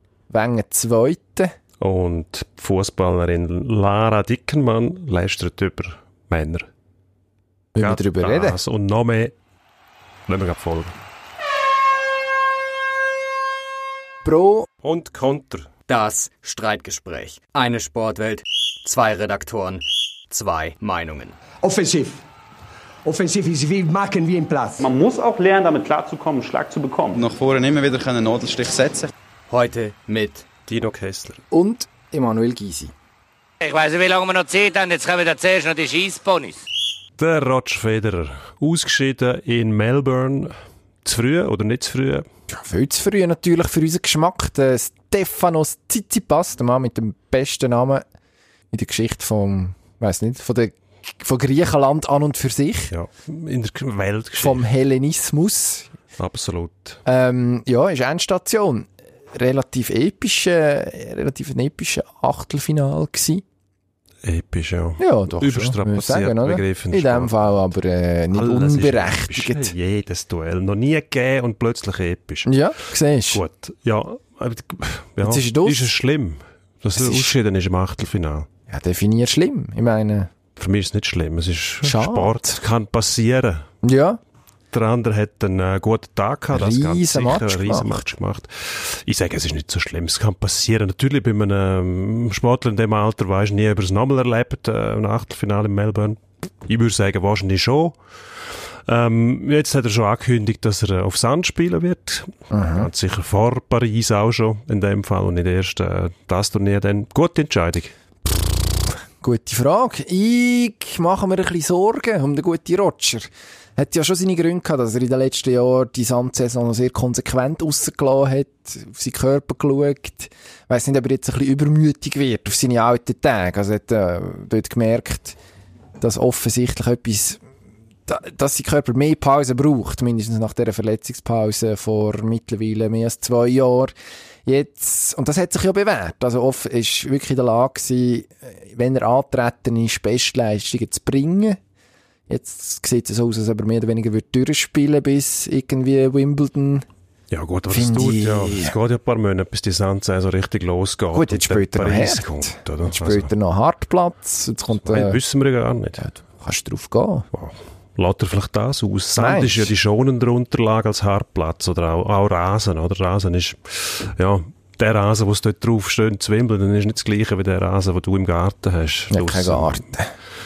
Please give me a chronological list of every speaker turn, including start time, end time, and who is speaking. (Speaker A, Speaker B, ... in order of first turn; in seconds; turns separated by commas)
Speaker A: 0.3-1.5, Speaker B: 1.8-6.7, Speaker A: 7.7-8.6, Speaker B: 7.8-9.3, Speaker B: 10.3-11.0, Speaker A: 14.2-14.7, Speaker B: 14.8-15.7, Speaker C: 15.9-21.4, Speaker D: 21.6-22.2, Speaker D: 23.1-24.9, Speaker E: 24.8-27.3, Speaker F: 27.2-29.1, Speaker C: 29.5-30.5, Speaker B: 30.7-31.4, Speaker A: 31.5-32.9, Speaker G: 33.6-36.6, Speaker B: 37.2-40.5, Speaker B: 41.0-42.3, Speaker A: 42.5-48.0, Speaker A: 48.7-52.9, Speaker B: 52.9-54.7, Speaker A: 54.4-55.9, Speaker B: 56.2-57.0, Speaker A: 57.1-63.4, Speaker B: 64.2-67.5, Speaker A: 65.0-69.7, Speaker B: 68.3-72.5, Speaker A: 72.5-73.4, Speaker B: 73.3-78.5, Speaker A: 75.2-75.9, Speaker A: 77.0-77.3, Speaker A: 78.7-80.3, Speaker B: 80.6-83.7, Speaker A: 81.8-82.6, Speaker A: 83.8-84.2, Speaker B: 84.7-98.0, Speaker A: 86.5-88.0, Speaker B: 98.9-108.0, Speaker A: 102.5-102.9, Speaker A: 108.9-125.4, Speaker A: 126.0-127.4, Speaker A: 128.1-133.9, Speaker A: 134.4-141.6, Speaker A: 142.3-146.8, Speaker B: 147.3-153.3, Speaker A: 147.7-148.8, Speaker A: 151.1-155.2, Speaker B: 154.9-156.1, Speaker A: 156.0-157.2, Speaker B: 157.3-169.9, Speaker A: 159.2-159.7, Speaker A: 169.1-170.1